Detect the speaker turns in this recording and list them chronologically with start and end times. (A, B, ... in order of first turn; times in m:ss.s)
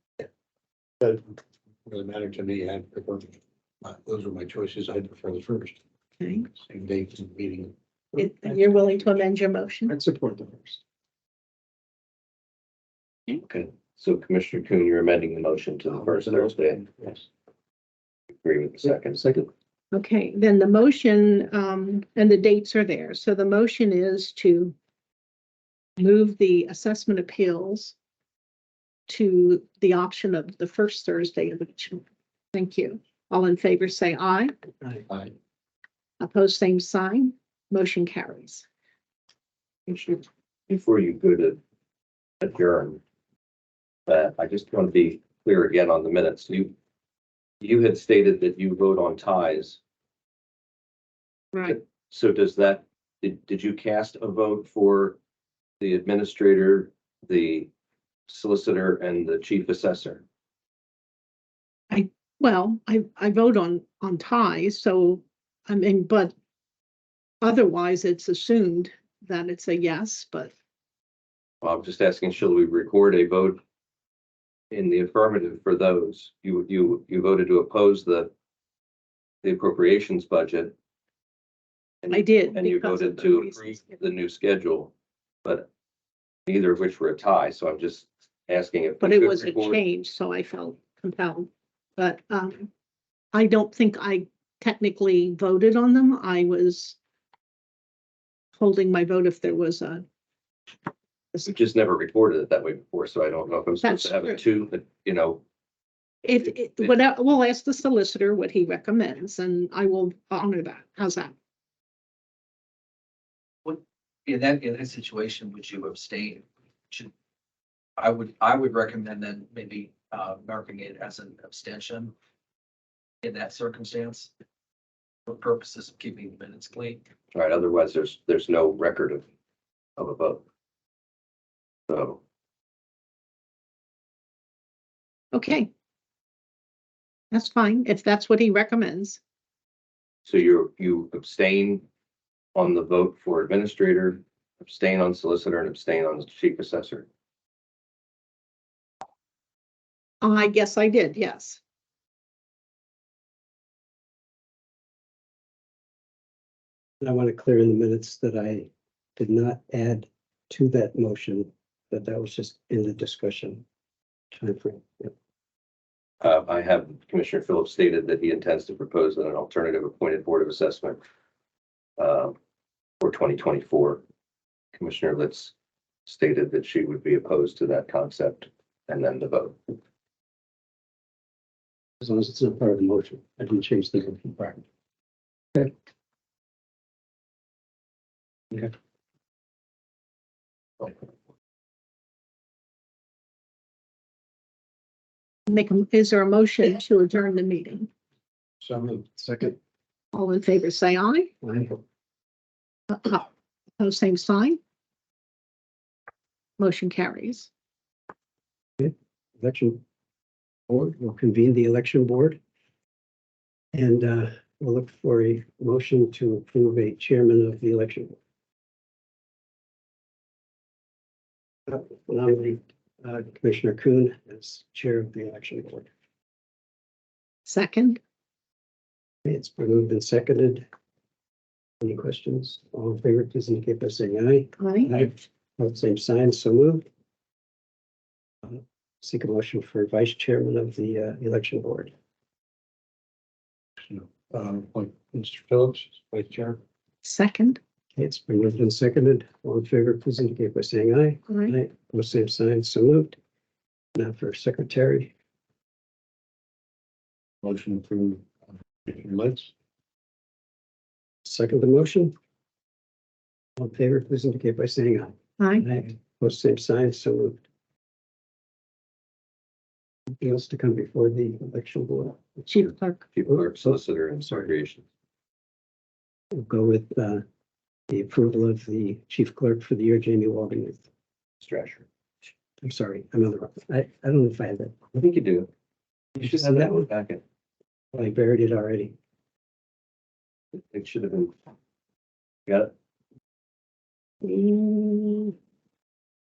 0:01.9-0:05.8 A
0:06.2-0:06.5 B
0:06.5-0:07.7 A
0:08.2-0:08.7 C
0:08.2-0:09.9 B
0:09.9-0:10.8 C
0:13.3-0:16.8 D
0:18.4-0:19.4 D
0:19.0-0:19.5 C
0:19.9-0:24.8 B
0:26.0-0:28.0 B
0:29.1-0:34.5 B
0:36.2-0:38.7 B
0:39.9-0:41.6 D
0:42.4-0:43.0 D
0:44.1-0:46.7 D
0:47.6-0:49.8 D
0:51.7-0:55.2 D
0:55.8-0:57.7 D
0:58.3-1:00.2 D
1:01.9-1:06.3 B
1:07.4-1:10.5 B
1:11.6-1:13.6 D
1:14.7-1:18.3 D
1:19.4-1:20.8 D
1:22.0-1:24.9 D
1:22.1-1:24.0 B
1:26.5-1:29.8 D
1:29.0-1:32.7 B
1:33.3-1:37.0 B
1:38.6-1:40.0 B
1:41.4-1:45.4 D
1:43.8-1:44.4 B
1:46.2-1:51.4 B
1:53.6-1:57.1 E
1:58.0-2:02.1 E
2:03.2-2:04.3 E
2:05.3-2:07.0 E
2:07.3-2:09.2 D
2:10.0-2:10.4 D
2:11.9-2:12.2 D
2:15.3-2:15.7 B
2:17.3-2:19.2 B
2:20.3-2:21.8 D
2:22.6-2:27.1 D
2:30.2-2:31.6 B
2:37.0-2:43.6 C
2:44.3-2:45.1 C
2:46.2-2:51.0 D
2:52.0-2:52.4 D
2:53.0-2:54.0 D
2:54.8-2:55.5 D
2:56.1-2:59.6 D
3:02.0-3:04.6 C
3:15.5-3:17.9 B
3:18.6-3:19.0 A
3:19.1-3:19.6 C
3:20.1-3:21.3 B
3:21.4-3:21.8 C
3:22.9-3:24.6 B
3:26.6-3:27.5 B
3:28.8-3:29.8 C
3:30.7-3:32.4 C
3:33.7-3:38.2 C
3:41.7-3:45.9 C
3:47.5-3:48.0 B
3:49.2-3:50.7 C
3:51.8-3:56.8 C
3:54.6-3:54.9 B
3:58.4-4:01.9 C
4:03.8-4:06.6 A
4:07.0-4:07.6 B
4:08.0-4:13.2 C
4:11.3-4:11.5 B
4:14.0-4:15.1 C
4:17.4-4:18.3 A
4:18.9-4:19.5 A
4:21.2-4:22.1 C
4:23.6-4:27.4 C
4:25.4-4:25.7 B
4:30.2-4:32.7 C
4:32.5-4:33.0 B
4:33.1-4:34.8 D
4:33.3-4:34.5 C
4:36.3-4:37.2 C
4:37.9-4:40.8 C
4:41.4-4:41.9 D
4:42.6-4:44.8 C
4:44.9-4:45.5 D
4:46.2-4:47.2 D
4:46.2-4:46.9 C
4:47.9-4:49.0 C
4:50.6-4:51.3 D
4:52.5-4:52.7 D
4:54.2-4:55.3 B